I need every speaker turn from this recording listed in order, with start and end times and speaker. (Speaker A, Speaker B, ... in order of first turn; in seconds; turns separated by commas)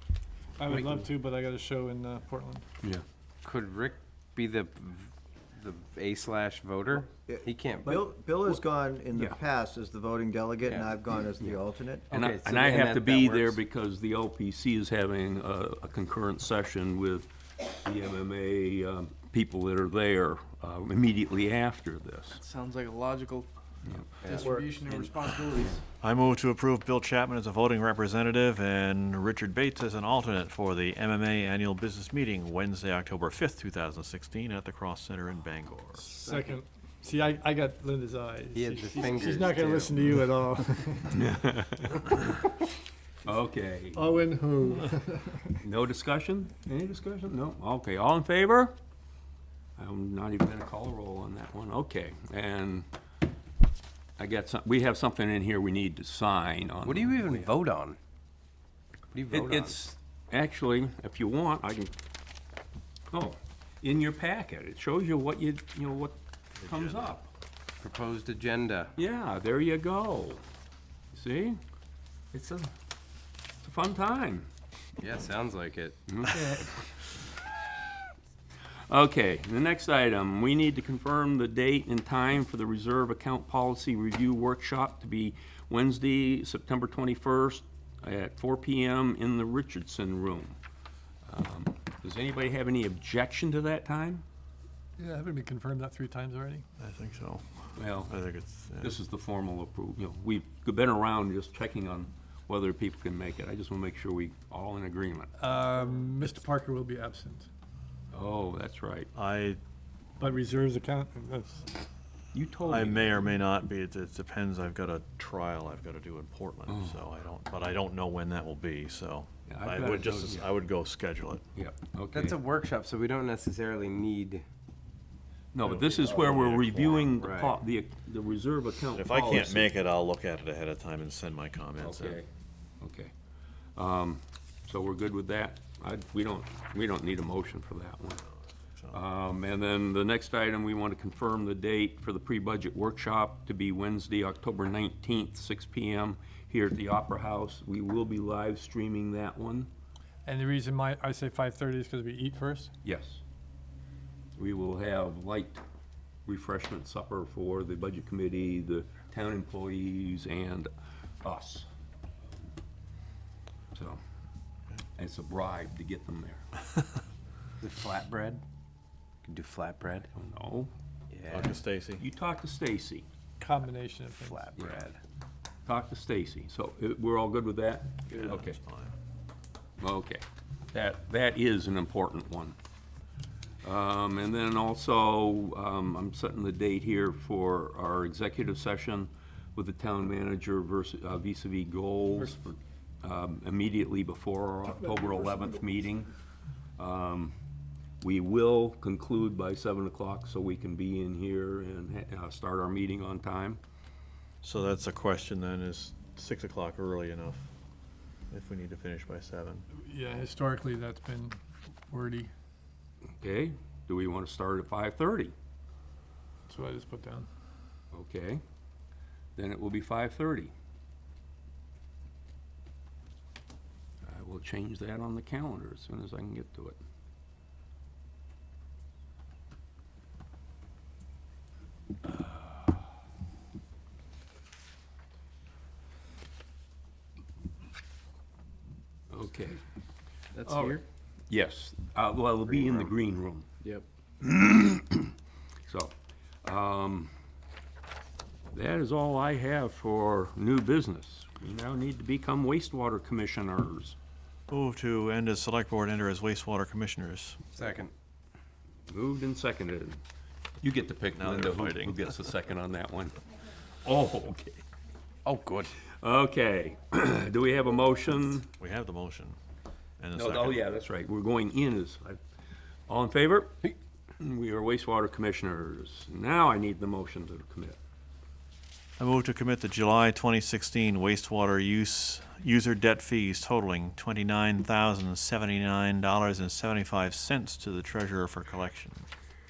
Speaker A: 0.6-2.6, Speaker B: 3.4-8.1, Speaker C: 7.2-12.1, Speaker B: 10.6-11.0, Speaker D: 12.1-17.3, Speaker B: 12.1-13.6, Speaker D: 17.8-22.4, Speaker E: 22.5-23.4, Speaker D: 23.8-24.5, Speaker B: 24.2-25.1, Speaker E: 24.3-25.7, Speaker F: 26.0-36.1, Speaker A: 36.0-41.4, Speaker B: 36.2-36.6, Speaker B: 38.5-40.0, Speaker D: 41.1-42.2, Speaker D: 43.2-44.1, Speaker A: 43.9-45.6, Speaker D: 45.6-48.8, Speaker D: 49.8-52.9, Speaker D: 54.2-57.5, Speaker B: 56.8-58.0, Speaker B: 59.1-59.8, Speaker D: 59.3-61.9, Speaker D: 63.1-67.3, Speaker F: 66.6-67.2, Speaker B: 67.8-68.9, Speaker D: 69.0-70.4, Speaker D: 71.1-71.6, Speaker D: 72.3-72.7, Speaker D: 73.6-74.5, Speaker B: 75.0-76.0, Speaker D: 76.1-77.1, Speaker D: 78.9-90.6, Speaker D: 91.3-94.2, Speaker A: 95.0-96.6, Speaker F: 96.8-99.0, Speaker D: 97.8-98.1, Speaker D: 98.8-105.3, Speaker A: 105.4-107.5, Speaker D: 108.1-109.1, Speaker F: 109.1-109.6, Speaker A: 110.2-111.7, Speaker D: 112.3-113.3, Speaker F: 112.6-121.4, Speaker D: 116.7-117.0, Speaker D: 119.5-120.5, Speaker D: 121.5-122.4, Speaker B: 122.1-124.4, Speaker D: 125.5-129.7, Speaker F: 125.6-127.2, Speaker B: 127.1-127.5, Speaker F: 128.9-132.2, Speaker D: 131.8-132.3, Speaker D: 132.8-133.1, Speaker D: 133.8-138.2, Speaker D: 138.9-149.7, Speaker A: 150.2-152.7, Speaker D: 152.8-153.2, Speaker D: 154.4-155.6, Speaker D: 156.2-160.7, Speaker D: 161.2-161.7, Speaker D: 163.7-164.0, Speaker D: 164.9-166.5, Speaker B: 167.6-168.4, Speaker B: 169.2-170.1, Speaker D: 170.1-170.7, Speaker B: 171.1-171.5, Speaker F: 171.3-172.0, Speaker D: 172.0-173.1, Speaker A: 173.4-174.7, Speaker B: 174.3-175.0, Speaker D: 174.6-174.8, Speaker D: 175.7-178.6, Speaker F: 178.1-178.9, Speaker D: 179.8-182.6, Speaker D: 183.6-196.1, Speaker D: 196.8-197.3, Speaker D: 198.0-203.6, Speaker F: 204.4-207.5, Speaker F: 208.3-209.7, Speaker A: 209.7-211.4, Speaker A: 211.9-212.3, Speaker D: 213.2-215.3, Speaker A: 216.5-217.3, Speaker D: 217.9-218.4, Speaker D: 219.3-220.5, Speaker D: 224.0-226.8, Speaker D: 239.1-239.6, Speaker B: 240.3-240.8, Speaker D: 240.4-243.5, Speaker B: 242.5-242.9, Speaker D: 244.2-245.1, Speaker D: 245.6-245.9, Speaker D: 246.4-247.1, Speaker D: 248.5-254.0, Speaker F: 254.5-257.4, Speaker B: 257.6-257.9, Speaker D: 258.9-260.0, Speaker D: 260.6-263.1, Speaker F: 261.2-262.0, Speaker D: 263.8-264.6, Speaker B: 265.2-265.7, Speaker D: 266.0-268.5, Speaker F: 268.5-269.4, Speaker F: 270.0-270.6, Speaker D: 270.1-272.2, Speaker D: 272.9-277.8, Speaker F: 279.0-289.1